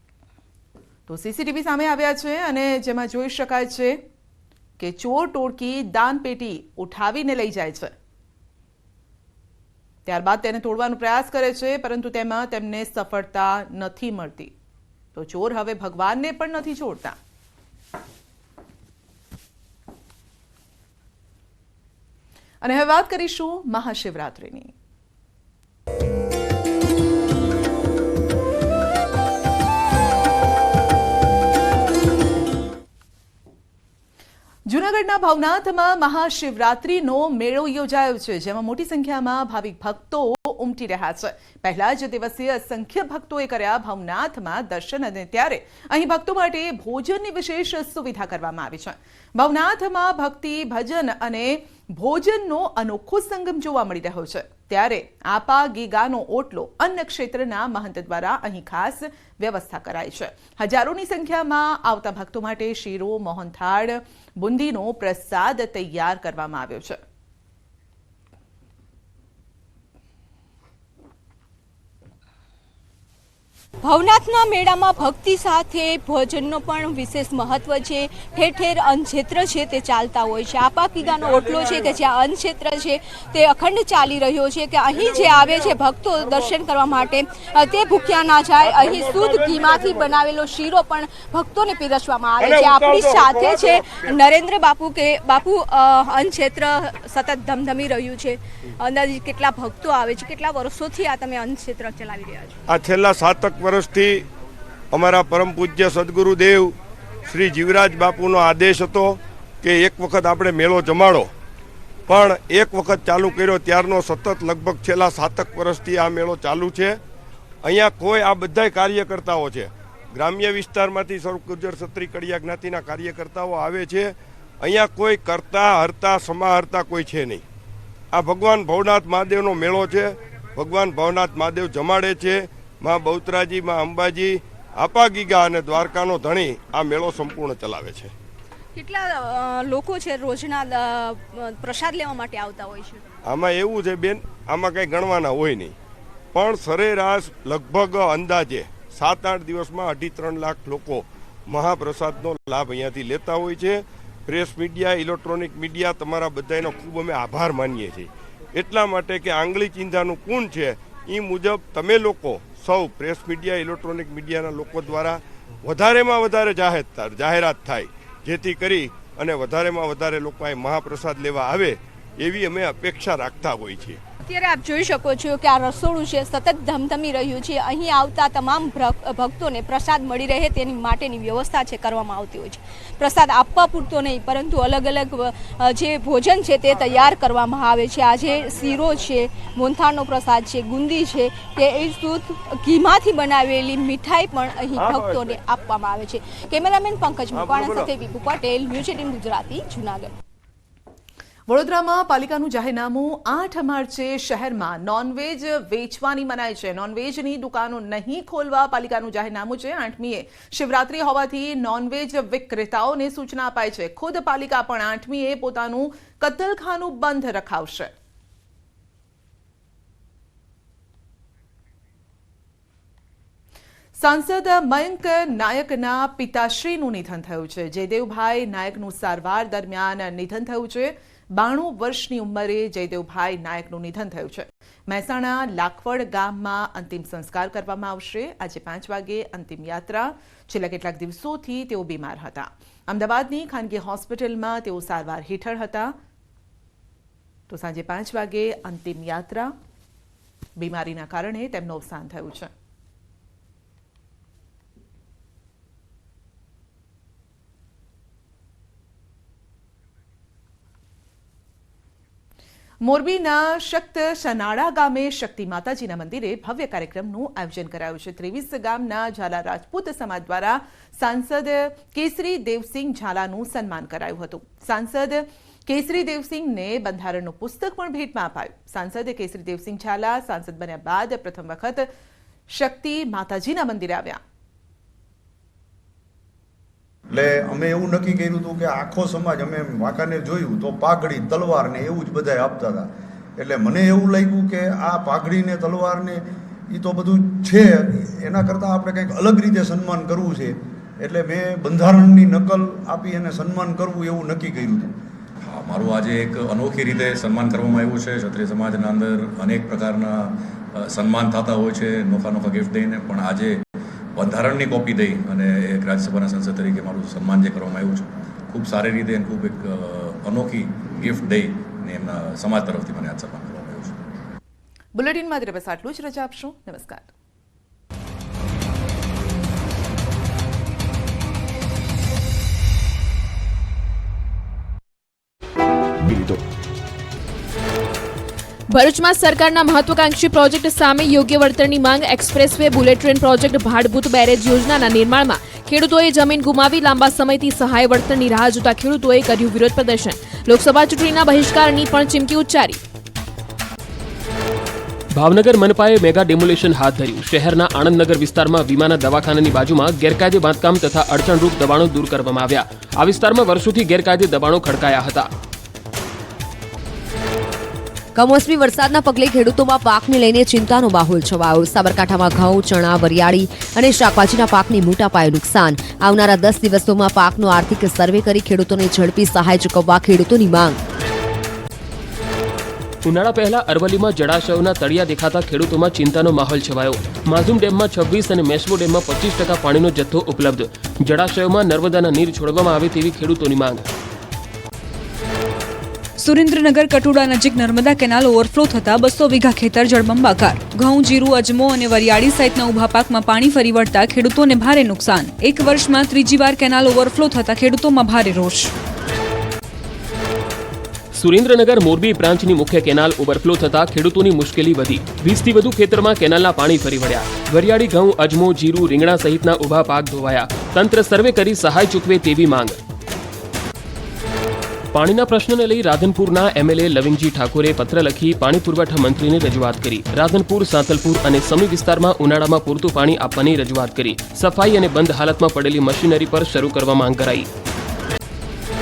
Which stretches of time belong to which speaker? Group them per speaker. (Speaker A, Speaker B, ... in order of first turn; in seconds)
Speaker A: 1.1-4.0, 4.8-7.9, 10.1-14.5, 15.1-17.1, 22.6-24.7, 34.7-67.0, 201.5-217.9, 224.0-245.9, 247.5-249.5, 250.6-252.5, 262.8-281.9, 282.5-284.2, 324.9-327.1
Speaker B: 73.8-102.6, 138.7-143.0, 174.2-200.1
Speaker C: 88.7-90.0, 92.4-94.1, 102.7-104.2, 104.9-106.7, 107.3-111.3, 112.1-117.0, 117.6-127.4, 128.1-138.1, 143.3-145.7, 146.3-174.0, 194.8-195.4, 197.3-197.9
Speaker D: 287.1-304.9
Speaker E: 305.4-313.6, 314.1-324.0
Speaker F: 338.7-352.8
Speaker G: 355.1-365.3, 383.0-393.8, 411.1-422.8, 424.9-437.5
Speaker H: 368.1-380.8
Speaker I: 396.2-408.7